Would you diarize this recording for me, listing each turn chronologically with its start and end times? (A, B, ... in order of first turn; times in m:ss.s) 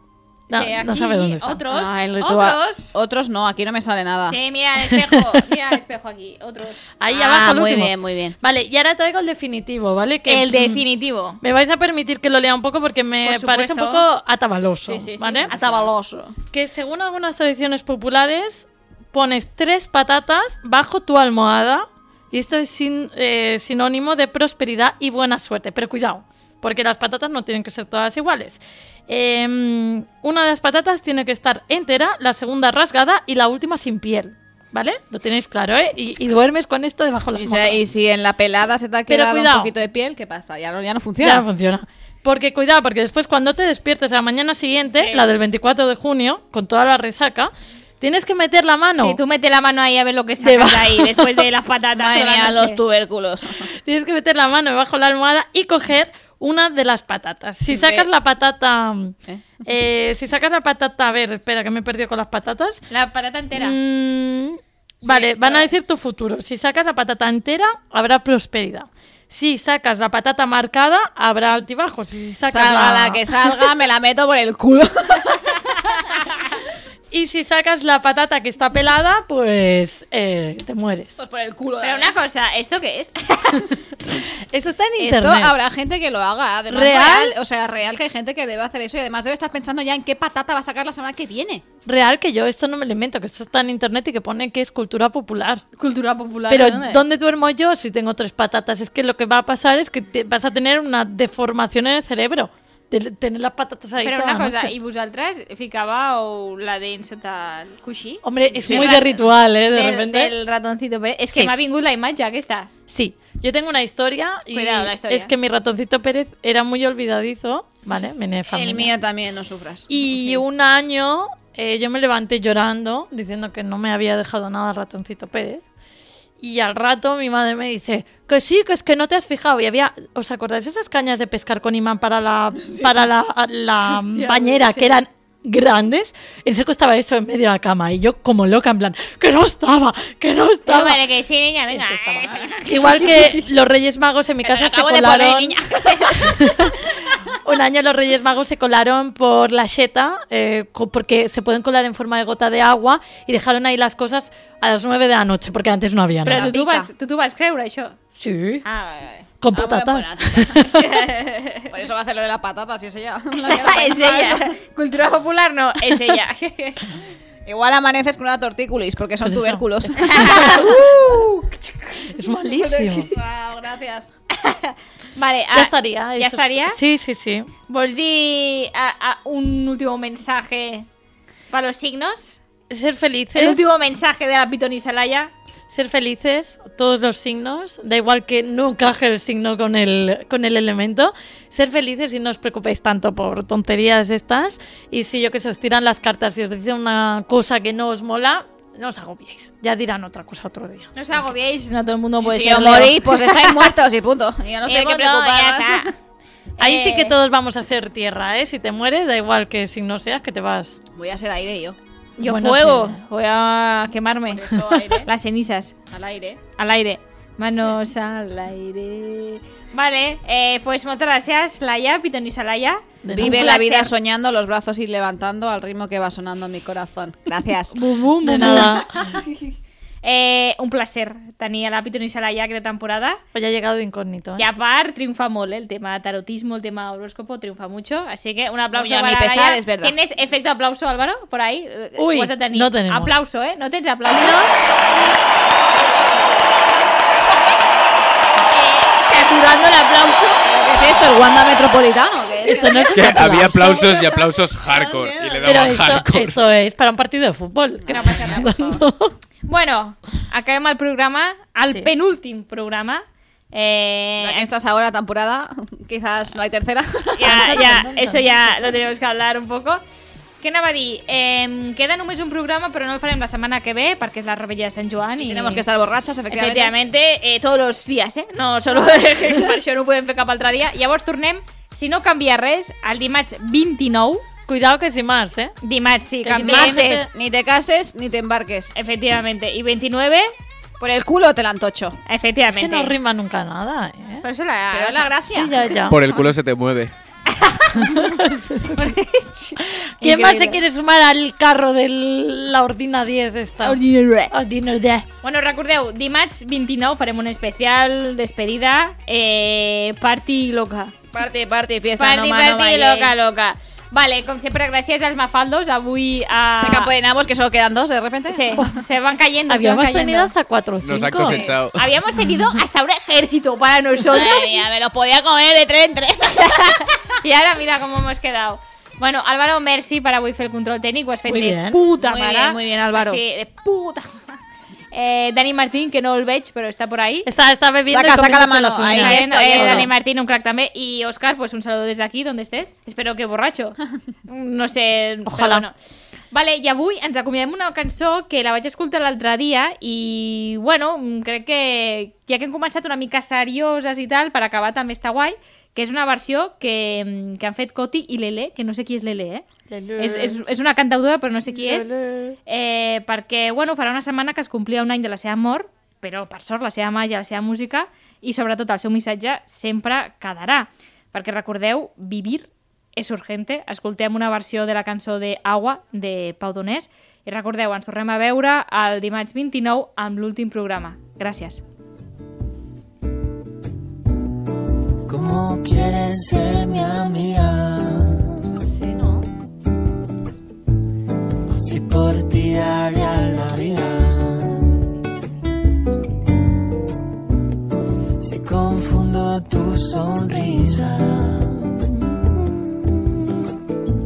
0:00.5-0:02.9 A
0:00.5-0:01.6 B
0:01.7-0:04.4 C
0:04.3-0:06.9 A
0:04.8-0:05.5 B
0:07.0-0:10.8 B
0:07.1-0:08.4 C
0:10.3-0:11.4 A
0:11.4-0:15.5 B
0:13.2-0:14.0 A
0:14.9-0:16.4 C
0:15.5-0:15.8 A
0:16.5-0:37.8 B
0:37.4-0:41.4 C
0:39.1-0:39.7 B
0:41.2-0:49.2 B
0:44.9-0:45.3 C
0:49.0-0:52.8 A
0:50.4-0:51.4 B
0:52.0-0:53.7 C
0:53.8-1:02.8 B
0:57.7-0:58.1 C
1:02.9-1:03.8 A
1:03.6-1:13.2 B
1:05.1-1:05.7 A
1:12.5-1:15.6 C
1:17.1-1:21.2 B
1:21.2-1:22.2 C
1:21.8-1:23.8 A
1:24.1-1:25.5 B
1:25.0-1:31.6 C
1:26.7-1:27.4 B
1:31.9-1:35.6 B
1:35.8-1:37.0 A
1:36.5-1:44.7 B
1:44.0-1:52.7 A
1:48.2-1:50.3 B
1:48.6-1:49.0 C
1:52.9-1:58.9 B
1:54.5-1:55.3 A
1:58.5-2:00.4 C
1:59.9-2:05.6 B
2:06.4-2:21.0 B
2:13.8-2:15.0 A
2:20.7-2:23.5 A
2:21.7-2:25.6 B
2:24.4-2:26.4 C
2:26.2-2:36.5 B
2:36.3-2:38.0 A
2:36.3-2:36.9 C
2:38.2-2:38.6 B
2:38.6-2:39.3 A
2:39.4-2:40.8 B
2:39.5-2:40.7 C
2:40.8-2:41.6 A
2:41.7-2:44.5 C
2:43.4-2:46.8 A
2:47.5-2:50.8 C
2:49.2-2:50.8 B
2:50.0-2:52.0 A
2:52.1-2:53.1 B
2:52.6-2:54.1 C
2:54.3-2:56.8 A
2:55.5-2:57.5 B
2:57.7-3:00.9 A
3:01.5-3:02.4 A
3:02.7-3:03.7 B
3:03.4-3:05.3 A
3:05.7-3:20.9 B
3:21.0-3:23.7 A
3:22.2-3:25.9 C
3:24.7-3:25.9 A
3:26.6-3:27.1 A
3:26.6-3:30.8 B
3:30.9-3:31.8 C
3:32.2-3:33.0 B
3:32.2-3:35.8 A
3:34.3-3:35.1 C
3:35.9-3:36.4 C
3:36.6-3:43.9 A
3:43.0-3:43.5 B
3:43.1-3:47.9 C
3:47.7-3:48.8 A
3:48.2-3:48.9 B
3:48.4-3:48.8 C
3:50.0-3:53.2 A
3:53.3-3:54.5 B
3:54.4-4:04.4 A
3:58.7-4:00.0 C
4:02.0-4:03.2 B
4:04.1-4:04.5 B
4:08.5-4:10.4 A
4:10.5-4:15.8 C
4:12.4-4:13.9 B
4:12.9-4:16.4 D
4:15.4-4:19.2 B
4:17.8-4:18.8 C
4:17.9-4:18.5 A
4:19.5-4:24.5 A
4:24.2-4:27.5 C
4:27.2-4:29.8 A
4:27.2-4:28.8 B
4:30.4-4:35.6 A
4:35.2-4:36.7 C
4:36.3-4:44.2 A
4:44.5-4:45.5 B
4:45.6-4:46.9 A
4:46.2-4:47.1 B
4:46.4-4:48.8 C
4:48.8-4:50.3 A
4:50.8-4:52.0 C
4:52.1-4:52.9 A
4:52.5-4:54.3 B
4:54.2-4:55.1 A
4:54.7-4:55.6 C
4:55.3-4:56.0 B
4:55.9-4:56.9 D
4:57.4-4:58.0 A
4:57.7-4:59.0 B
4:58.8-5:00.6 A
4:59.6-5:05.1 B
5:03.6-5:04.3 A
5:05.2-5:10.9 A
5:11.1-5:13.1 C
5:12.0-5:16.9 A
5:16.6-5:18.7 C
5:18.3-5:20.3 A
5:19.5-5:21.4 B
5:20.8-5:21.9 D
5:21.2-5:21.6 C
5:21.8-5:24.6 A
5:24.0-5:26.9 C
5:26.4-5:26.7 A
5:27.2-5:34.4 A
5:31.3-5:31.8 B
5:32.0-5:33.2 C
5:34.9-5:37.3 A
5:37.2-5:39.9 B
5:37.9-5:39.9 C
5:38.9-5:45.7 A
5:45.3-5:45.6 B
5:46.3-5:59.4 A
5:59.7-6:00.4 B
6:00.0-6:01.9 A
6:01.5-6:02.4 B
6:02.5-6:21.6 A
6:25.1-6:28.5 E
6:28.6-6:29.3 B
6:31.5-6:34.7 E
6:38.2-6:41.8 E